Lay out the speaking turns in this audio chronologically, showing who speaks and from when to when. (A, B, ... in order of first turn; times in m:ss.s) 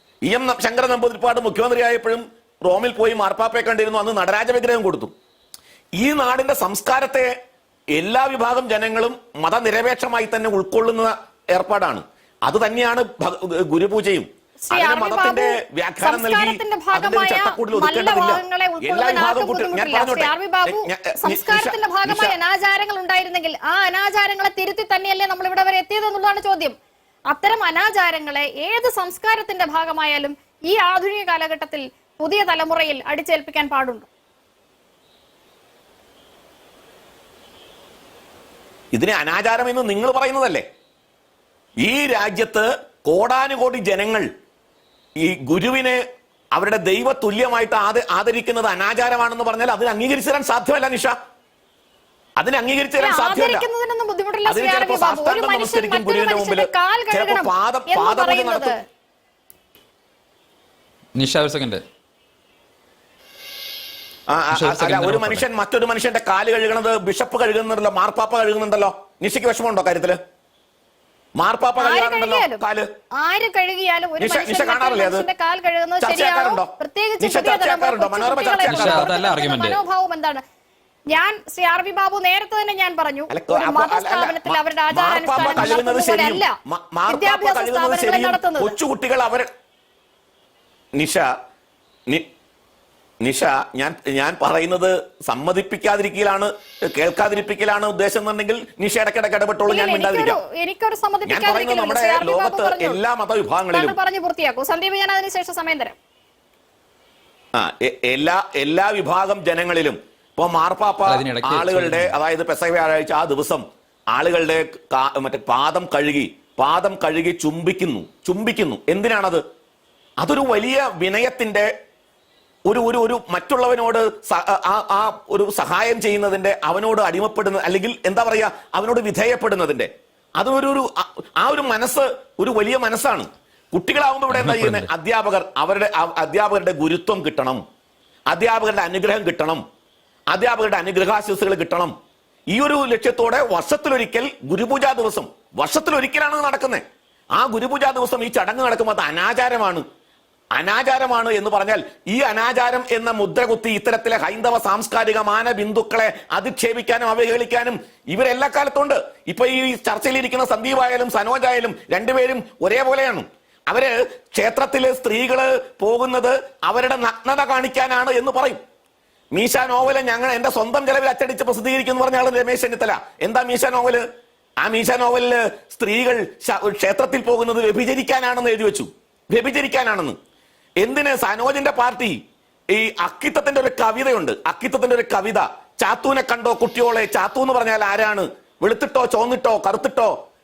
0:00.2-0:05.1 A
0:06.0-0:07.3 A
0:07.9-0:22.4 A
0:14.6-0:26.8 B
0:27.3-0:34.1 B
0:38.9-0:40.6 A
0:41.8-0:44.3 A
0:45.2-0:46.0 A
0:46.5-0:51.1 A
0:52.4-0:53.7 A
0:53.0-0:58.8 B
0:54.4-0:58.7 A
1:01.1-1:01.8 C
1:04.3-1:10.2 A
1:04.5-1:05.4 C
1:11.4-1:12.9 A
1:11.8-1:12.6 B
1:13.2-1:20.4 B
1:14.2-1:15.2 A
1:16.0-1:19.1 A
1:18.6-1:19.8 C
1:21.1-1:26.5 B
1:23.3-1:29.5 A
1:27.1-1:28.8 B
1:31.0-1:31.3 A
1:33.2-1:40.4 A
1:39.7-1:43.0 B
1:41.3-1:44.0 A
1:43.7-1:46.0 B
1:47.5-1:59.4 A
1:51.0-1:52.2 C
2:00.2-2:01.7 A
2:02.7-2:17.6 A
2:14.3-2:14.9 C
2:18.3-2:19.6 A
2:20.3-2:21.9 A
2:22.5-2:26.8 A
2:27.4-2:29.8 A
2:30.6-2:48.6 A
2:49.3-2:54.0 A
2:54.6-3:00.2 A
3:00.8-3:02.2 A
3:02.7-3:10.1 A